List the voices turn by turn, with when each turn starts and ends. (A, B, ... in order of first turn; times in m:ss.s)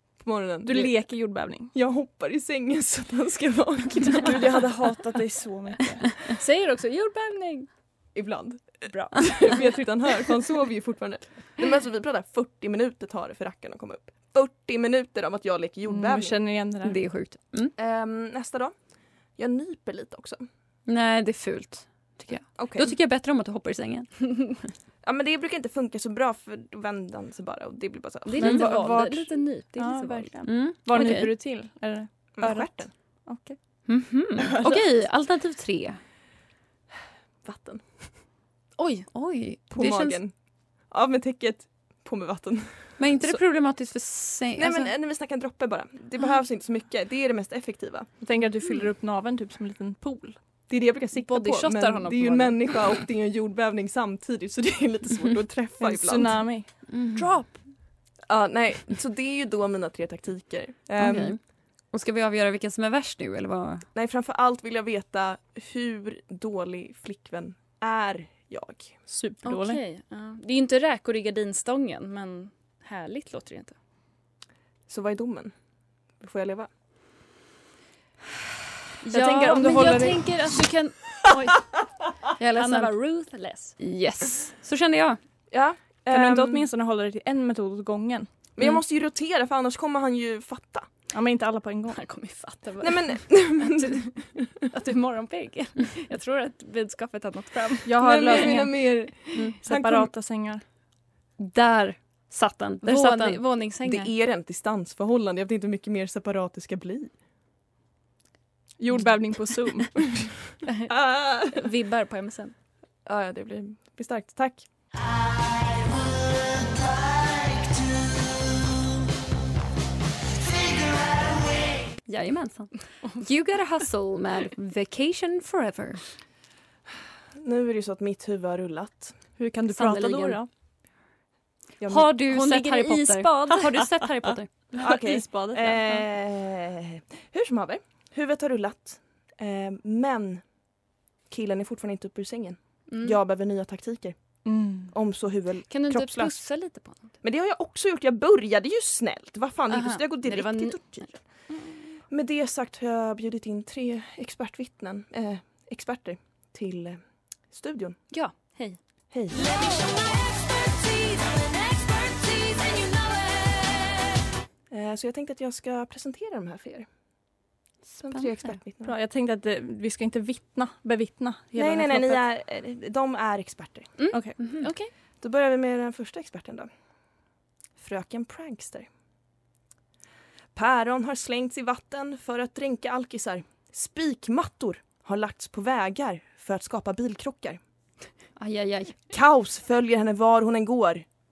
0:00.2-0:01.1 A
0:00.6-0:01.7 B
0:01.7-0:05.3 A
0:04.2-0:06.3 B
0:06.4-0:07.7 C
0:08.1-0:16.4 A
0:08.9-0:09.5 C
0:15.8-0:17.0 B
0:16.8-0:17.7 D
0:17.8-0:18.7 A
0:19.4-0:20.4 A
0:20.8-0:24.6 D
0:22.5-0:22.9 A
0:25.0-0:28.7 A
0:28.2-0:30.3 C
0:28.4-0:33.6 B
0:30.4-0:31.3 D
0:32.3-0:32.9 A
0:33.9-0:36.0 D
0:34.4-0:34.8 B
0:37.4-0:37.8 A
0:38.8-0:39.1 C
0:39.1-0:40.2 D
0:39.7-0:40.3 A
0:40.9-0:43.4 A
0:43.0-0:44.9 D
0:44.6-0:48.1 A
0:48.2-0:50.4 B
0:50.7-0:56.5 A
0:51.2-0:52.8 C
0:55.8-0:56.8 B
0:56.9-0:57.3 D
0:58.3-1:01.4 A
1:01.0-1:03.8 D
1:03.9-1:09.0 A
1:09.1-1:09.8 B
1:09.4-1:13.8 C
1:14.9-1:15.5 A
1:16.2-1:16.7 A
1:19.0-1:21.7 C
1:19.1-1:20.2 A
1:19.6-1:19.8 B
1:22.4-1:22.9 D
1:22.5-1:23.8 C
1:23.8-1:25.2 D
1:25.5-1:26.7 A
1:26.1-1:28.3 B
1:28.5-1:30.9 A
1:31.1-1:32.0 B
1:31.9-1:34.1 C
1:32.8-1:34.4 A
1:34.7-1:38.4 C
1:37.8-1:39.0 B
1:37.9-1:40.1 A
1:39.6-1:40.6 B
1:41.4-1:43.4 D
1:42.8-1:44.1 C
1:43.8-1:47.1 A
1:48.8-1:50.3 B
1:50.6-1:52.5 C
1:50.9-1:51.6 A
1:53.0-1:54.7 A
1:55.4-1:58.5 E
2:00.4-2:01.7 E
2:02.0-2:06.0 D
2:07.4-2:09.2 A
2:09.4-2:10.5 B
2:09.7-2:10.4 D
2:11.8-2:12.1 A
2:11.8-2:14.5 D
2:12.3-2:13.7 C
2:14.8-2:20.4 A
2:14.8-2:16.0 B
2:21.3-2:24.3 A
2:22.9-2:23.2 C
2:24.4-2:24.9 B
2:24.9-2:26.5 A
2:25.7-2:27.1 C
2:27.2-2:31.2 A
2:29.7-2:31.8 C
2:32.1-2:38.0 A
2:38.1-2:38.8 C
2:39.1-2:39.5 A
2:39.4-2:43.9 E
2:44.7-2:46.9 A
2:47.9-2:48.6 D
2:48.0-2:48.9 A
2:48.8-2:52.2 B
2:51.5-2:54.0 A
2:54.0-2:54.9 C
2:54.1-2:54.6 B
2:54.4-2:54.7 D
2:55.2-2:56.7 A
2:57.8-2:58.9 A
3:00.5-3:07.6 A
3:08.4-3:09.0 D
3:09.1-3:11.0 A